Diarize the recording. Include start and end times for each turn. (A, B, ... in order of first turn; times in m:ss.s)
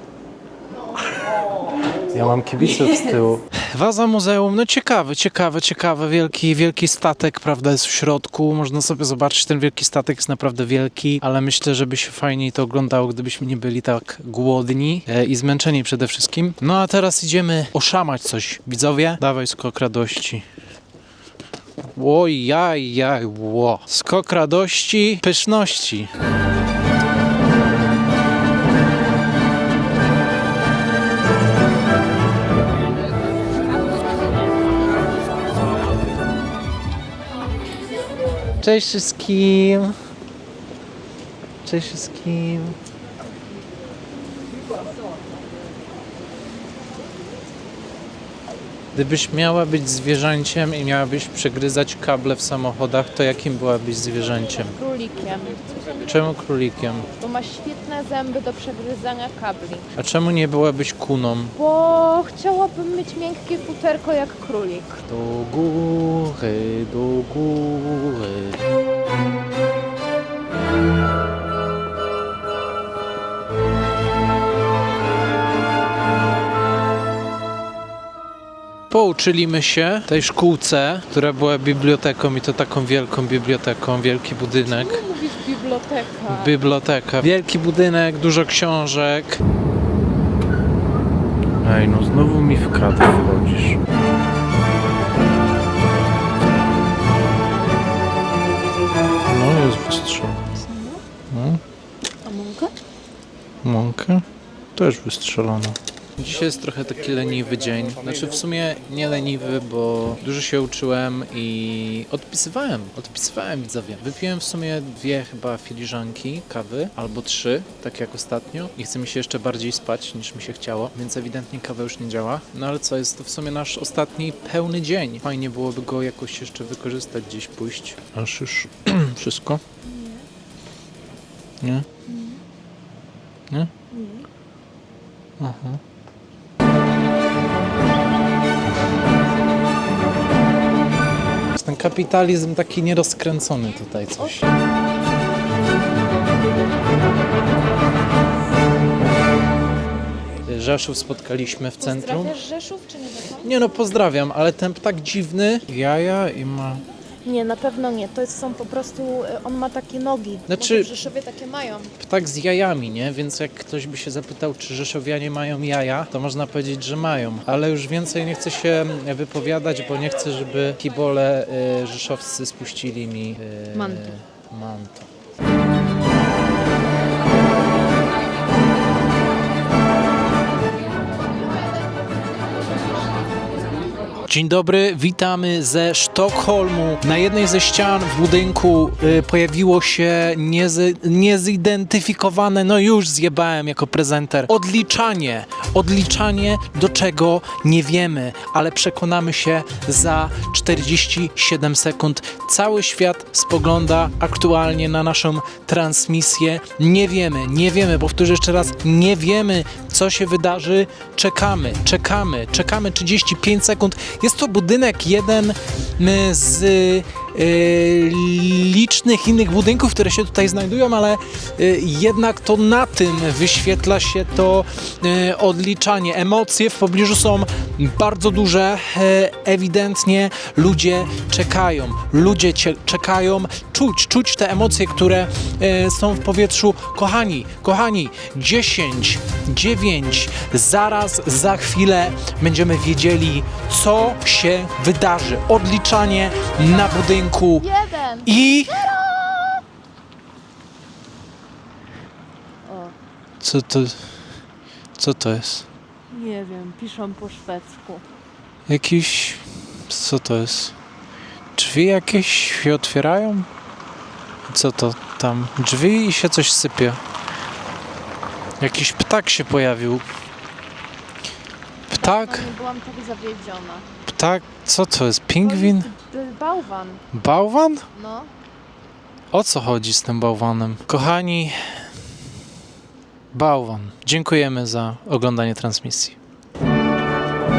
0:02.1-0:20.5 A
0:21.9-0:26.1 A
0:38.6-0:40.0 A
0:41.6-0:42.8 A
0:49.0-0:54.8 A
0:54.6-0:56.0 B
0:56.0-0:57.1 A
0:57.2-0:59.9 B
1:00.0-1:01.6 A
1:01.6-1:05.0 B
1:05.1-1:08.6 A
1:18.9-1:25.0 A
1:24.7-1:26.6 B
1:26.3-1:29.4 A
1:31.6-1:33.8 A
1:39.3-1:40.4 A
1:40.6-1:41.0 B
1:41.3-1:41.6 A
1:42.2-1:42.7 B
1:43.6-1:44.2 A
1:44.8-2:09.6 A
2:09.8-2:10.3 B
2:11.6-2:11.9 A
2:12.1-2:12.4 B
2:13.9-2:14.3 B
2:15.4-2:15.8 A
2:21.6-2:24.5 A
2:30.4-2:32.4 A
2:31.8-2:33.5 B
2:33.4-2:36.8 A
2:37.2-2:41.9 B
2:40.5-2:40.9 A
2:42.0-2:55.1 A
2:53.7-2:54.2 B
3:04.3-4:07.7 A
4:07.6-4:08.3 B
4:08.2-4:08.9 A
4:12.6-4:13.0 B
4:13.4-4:14.2 A
4:15.0-4:15.7 A
4:16.1-4:18.0 B
4:18.7-4:20.8 A
4:21.6-4:23.5 A
4:24.5-4:27.0 A
4:28.6-4:30.0 A
4:31.9-4:32.5 A
4:31.9-4:33.9 B
4:34.1-4:35.9 A
4:35.4-4:37.0 B
4:37.1-4:37.9 A
4:37.9-4:38.3 B
4:39.3-4:41.9 A
4:43.3-4:46.2 A